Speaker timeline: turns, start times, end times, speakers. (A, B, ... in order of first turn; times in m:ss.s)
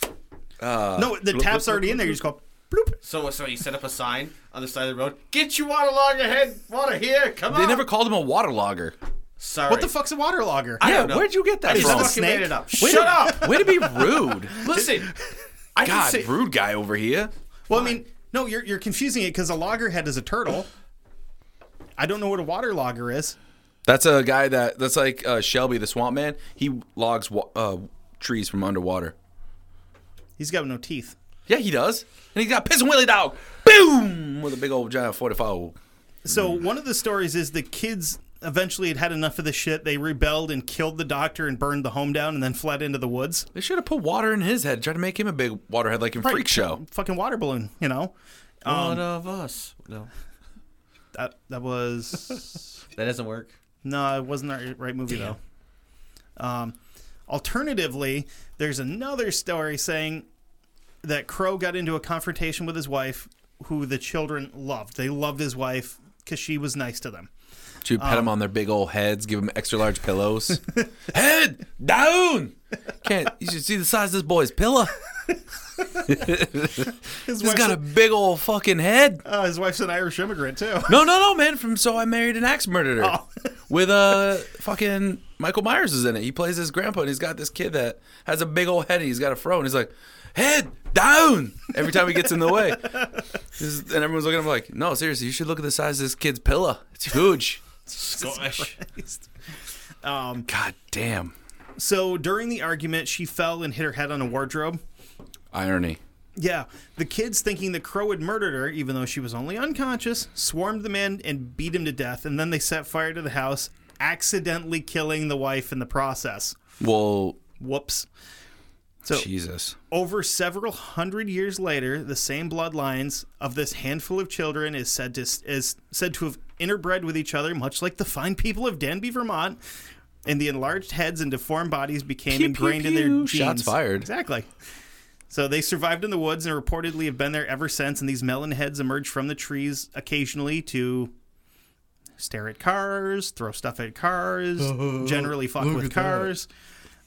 0:00.6-0:02.2 A
0:01.0-0:03.0 B
0:03.0-0:07.8 C
0:07.5-0:09.0 A
0:09.4-0:09.9 C
0:09.7-0:10.8 B
0:10.8-0:14.0 C
0:10.8-0:12.2 A
0:11.7-0:15.1 B
0:12.8-0:14.6 A
0:14.5-0:15.1 C
0:15.7-0:16.3 C
0:15.8-0:17.3 A
0:17.7-0:20.7 B
0:17.7-0:18.0 C
0:22.0-0:23.4 B
0:23.8-0:29.1 A
0:30.4-0:31.2 B
0:31.5-0:35.7 A
0:36.2-0:43.5 B
0:43.5-0:46.8 A
0:46.2-0:49.0 B
0:48.6-0:50.1 C
0:51.1-0:52.6 B
0:52.9-0:53.5 C
0:53.8-0:55.4 B
0:56.4-0:56.8 B
0:57.3-1:00.2 B
1:01.0-1:07.3 B
1:07.8-1:14.9 A
1:08.0-1:08.3 B
1:15.8-1:16.1 B
1:16.0-1:19.2 A
1:17.2-1:17.8 B
1:19.2-1:21.0 B
1:20.9-1:23.2 A
1:23.0-1:23.3 B
1:23.7-1:37.6 A
1:37.9-1:39.3 B
1:38.0-1:38.8 C
1:40.0-1:40.5 B
1:40.5-1:41.3 A
1:41.8-1:44.8 B
1:45.5-1:46.0 A
1:46.4-1:56.6 B
1:56.8-1:57.4 A
1:57.6-1:58.1 B
1:59.1-1:59.8 A
1:59.9-2:09.6 B
2:10.2-2:14.5 B
2:12.3-2:14.1 A
2:15.3-2:21.1 B
2:22.2-2:26.5 B
2:24.6-2:26.3 C